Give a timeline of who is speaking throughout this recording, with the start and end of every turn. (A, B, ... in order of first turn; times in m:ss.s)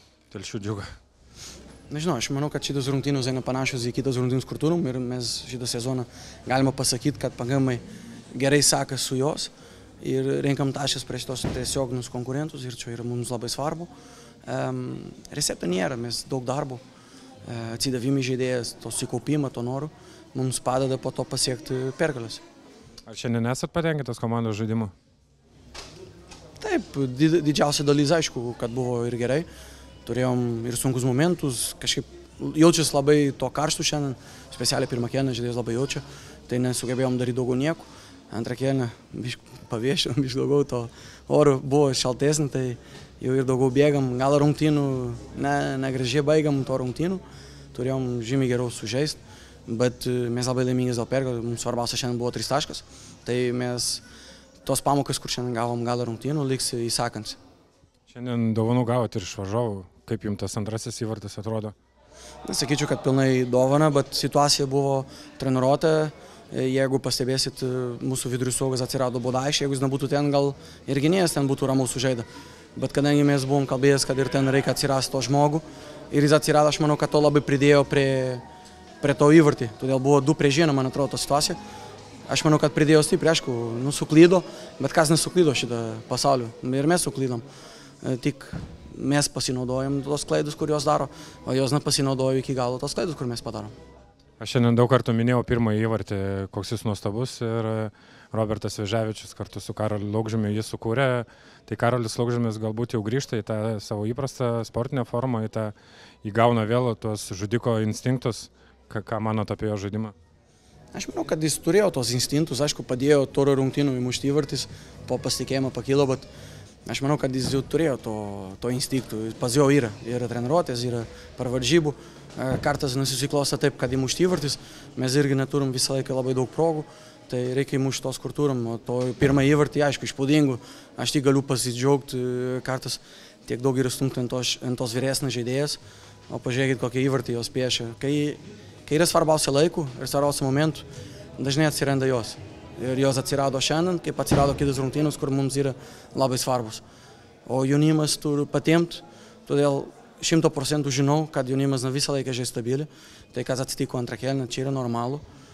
0:00.3-0:00.9 A
0:01.9-0:13.9 B
0:14.4-0:16.8 B
0:17.5-0:22.4 B
0:23.1-0:24.9 A
0:26.6-0:29.5 B
0:30.0-0:47.2 B
0:47.7-0:54.0 B
0:54.6-0:57.4 B
0:58.1-1:01.7 A
1:02.5-1:18.4 B
1:19.0-1:21.6 B
1:22.3-1:27.4 B
1:28.0-1:33.7 B
1:34.4-1:50.1 A
1:50.9-1:56.3 B
1:56.9-2:20.8 B
2:21.4-2:26.8 B
2:27.5-2:35.2 B